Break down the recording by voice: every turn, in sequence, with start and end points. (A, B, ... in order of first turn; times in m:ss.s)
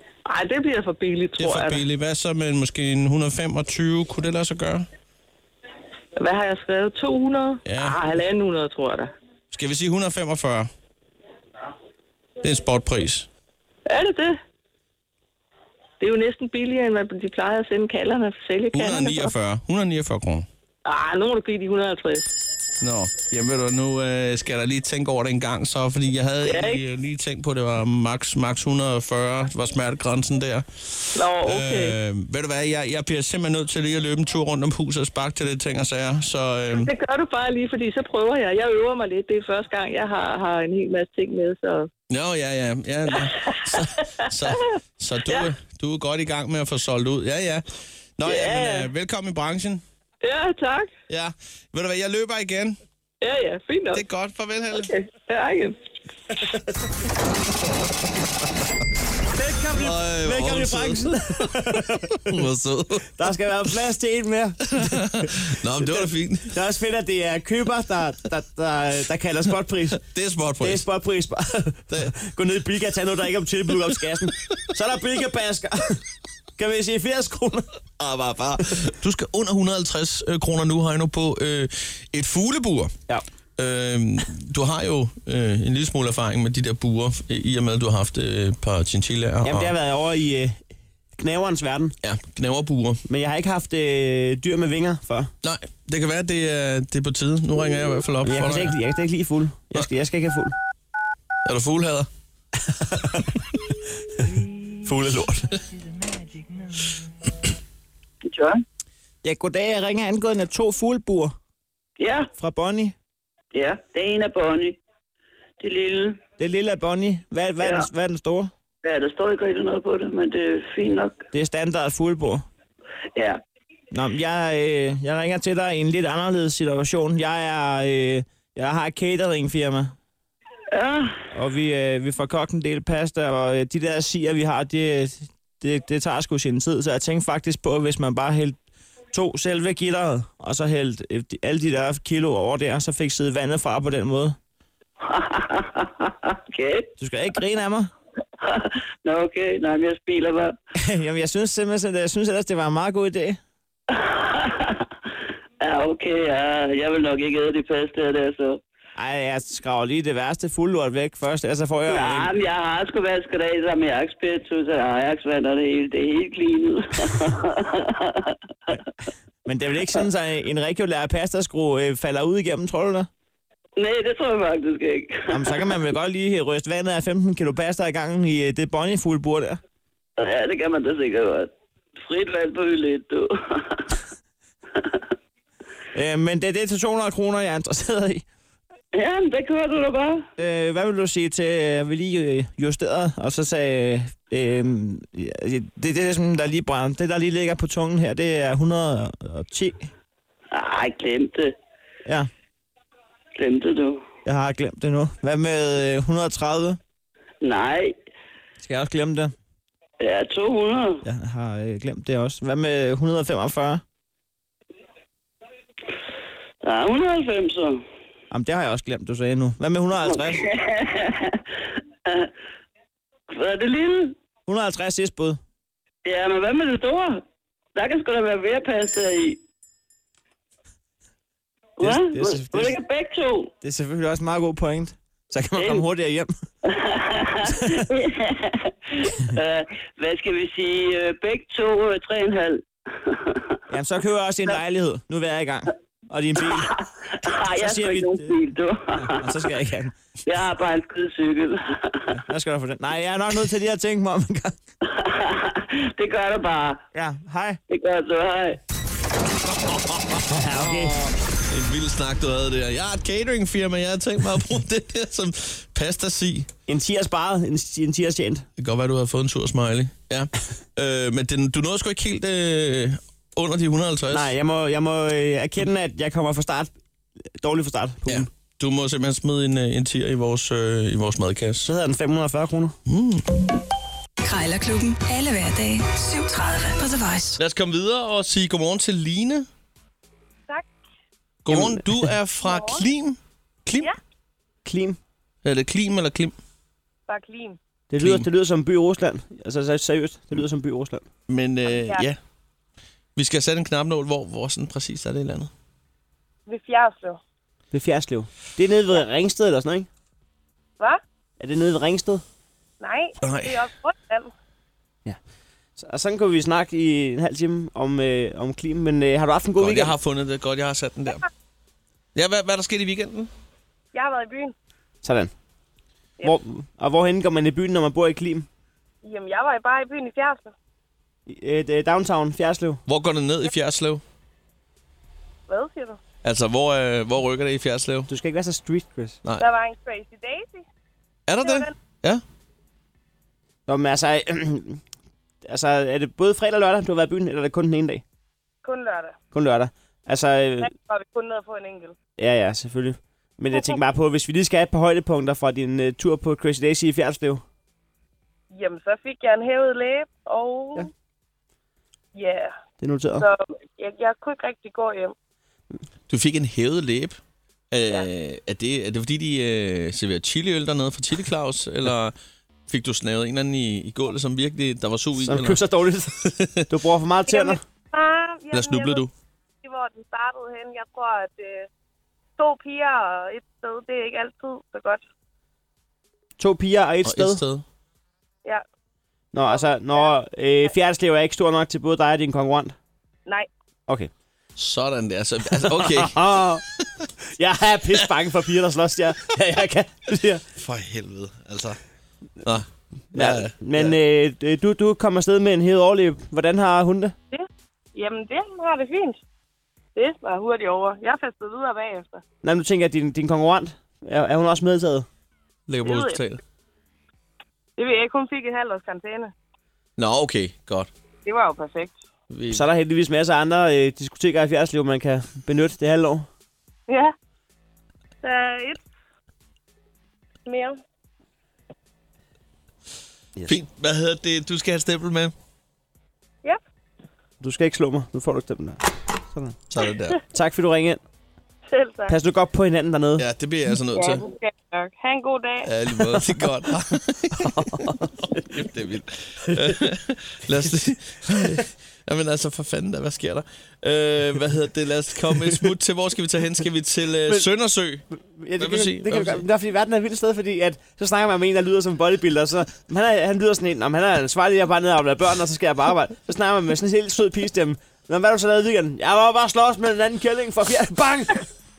0:00.2-0:01.8 A
0:01.4-0:04.9 B
0:06.2-0:09.1 A
0:07.6-0:08.0 B
0:09.5-0:10.7 B
0:12.4-0:13.3 B
0:13.9-0:14.4 A
0:16.0-0:19.3 A
0:18.7-0:20.5 B
0:20.8-0:22.3 A
0:22.8-0:36.9 B
0:26.4-0:26.8 A
0:31.1-0:32.0 A
0:36.8-0:41.9 A
0:42.1-0:49.8 B
0:43.2-0:44.7 A
0:48.2-0:48.9 A
0:50.2-0:50.9 A
0:51.1-0:52.8 B
0:53.2-0:54.0 A
0:53.9-0:54.9 B
0:54.8-0:55.8 A
0:59.3-1:02.4 C
0:59.7-1:03.2 B
1:03.2-1:10.0 C
1:04.7-1:06.6 B
1:09.9-1:10.8 B
1:10.6-1:16.0 C
1:16.6-1:17.7 C
1:18.0-1:22.9 B
1:23.6-1:29.7 B
1:29.4-1:30.6 C
1:31.1-1:31.9 C
1:32.0-1:33.0 B
1:33.1-1:35.3 C
1:35.4-1:38.8 B
1:38.2-1:40.5 C
1:41.4-1:42.1 B
1:42.7-1:43.4 C
1:44.8-1:45.5 C
1:48.2-1:48.6 D
1:49.2-1:51.3 C
1:52.0-1:52.3 D
1:52.4-1:52.9 C
1:53.5-1:54.8 D
1:55.6-1:56.2 D
1:56.4-1:58.5 C
1:57.6-1:57.9 D
1:58.8-2:01.2 D
2:01.3-2:02.4 C
2:03.1-2:03.4 D
2:03.9-2:09.9 C
2:10.7-2:11.2 D
2:11.3-2:18.6 C
2:19.1-2:24.4 C
2:25.0-2:26.9 D
2:27.0-2:27.9 C
2:28.4-2:30.6 D
2:30.8-2:33.4 C
2:33.9-2:34.9 D
2:35.6-2:38.6 D
2:39.0-2:42.3 C
2:41.9-2:48.8 D
2:49.4-2:53.1 C
2:53.8-2:55.8 D
2:55.3-2:59.6 C
3:00.2-3:04.0 D
3:04.7-3:05.0 D
3:05.9-3:08.2 C
3:08.9-3:10.2 D
3:10.4-3:19.9 C
3:20.5-3:21.5 D
3:23.4-3:24.0 D
3:24.2-3:26.8 C
3:27.4-3:28.0 D
3:28.6-3:29.3 C
3:30.0-3:31.0 D
3:31.0-3:33.8 C
3:36.6-3:37.8 D
3:38.3-3:40.4 C
3:40.0-3:42.3 D
3:43.3-3:44.2 D
3:44.5-3:45.4 C
3:46.0-3:47.2 D
3:47.7-3:49.4 D
3:51.8-3:53.5 D
3:51.8-3:52.8 C
3:53.6-3:56.3 C
3:55.6-3:55.8 D
3:56.6-4:03.5 D
3:57.4-3:57.9 C
4:03.7-4:08.3 C
4:06.4-4:09.5 D
4:09.0-4:10.0 C
4:10.2-4:12.2 D
4:12.1-4:14.6 C
4:14.8-4:16.8 D
4:16.9-4:17.6 C
4:17.7-4:18.6 D
4:19.6-4:26.5 B
4:20.3-4:21.1 C
4:26.7-4:28.4 C
4:28.6-4:34.3 B
4:34.1-4:36.7 C
4:37.4-4:38.3 C
4:38.0-4:41.7 B
4:41.6-4:42.8 C
4:42.8-4:43.4 B
4:44.2-4:47.4 E
4:47.4-4:49.5 B
4:51.4-4:53.9 B
4:51.5-4:51.8 C
4:52.4-4:52.9 F
4:54.6-4:55.0 C
4:55.4-4:56.4 B
4:57.1-4:57.6 F
4:57.9-5:01.0 C
4:58.0-4:58.2 B
5:01.3-5:02.2 B
5:01.7-5:02.0 F
5:03.2-5:05.5 B
5:06.5-5:07.2 F
5:07.7-5:09.9 C
5:11.4-5:12.2 C
5:12.8-5:14.3 F
5:13.2-5:13.6 B
5:15.8-5:19.9 C
5:19.6-5:21.2 B
5:22.1-5:23.3 B
5:23.9-5:24.5 F
5:25.0-5:25.3 C
5:26.2-5:28.5 C
5:29.0-5:30.5 F
5:31.3-5:32.8 C
5:32.9-5:34.0 B
5:35.5-5:36.0 F
5:36.2-5:38.1 B
5:38.1-5:39.2 C
5:39.2-5:39.5 B
5:39.4-5:40.6 F
5:41.3-5:42.2 B
5:41.4-5:41.7 F
5:43.7-5:44.8 C
5:45.4-5:48.0 C
5:48.6-5:49.2 F
5:49.3-5:50.7 C
5:50.6-5:52.0 F
5:52.2-5:57.4 C
5:53.5-5:53.8 F
5:58.5-6:00.9 F
6:02.1-6:02.5 F
6:02.8-6:03.3 C
6:03.2-6:05.1 F
6:06.1-6:07.2 B
6:07.7-6:12.1 B
6:12.7-6:15.6 B
6:15.2-6:17.6 C
6:16.2-6:16.6 B
6:17.3-6:19.1 F
6:18.5-6:19.1 B
6:19.6-6:21.7 F
6:22.4-6:25.0 F
6:26.4-6:27.4 C
6:27.0-6:27.6 B
6:29.3-6:32.8 C
6:29.4-6:30.7 F
6:34.6-6:37.1 B
6:35.5-6:36.6 C
6:37.2-6:40.4 C
6:40.6-6:41.8 B
6:42.4-6:44.0 B
6:43.1-6:47.1 C
6:47.3-6:49.2 F
6:49.9-6:52.2 F
6:52.4-6:55.0 C
6:55.7-6:56.4 B
6:55.8-6:56.2 F
6:57.8-6:59.3 F
7:00.0-7:00.9 B
7:01.2-7:02.0 F
7:02.3-7:02.7 B
7:02.5-7:06.3 C
7:06.9-7:07.1 F
7:08.2-7:08.8 F
7:10.4-7:10.8 F
7:13.5-7:15.3 B
7:17.4-7:19.6 C
7:19.7-7:20.2 B
7:20.3-7:21.0 C
7:21.7-7:22.2 F
7:22.1-7:23.2 C
7:23.2-7:24.2 B
7:23.9-7:25.7 F
7:25.6-7:38.1 B
7:27.3-7:28.4 C
7:38.1-7:51.5 C
7:38.6-7:39.4 B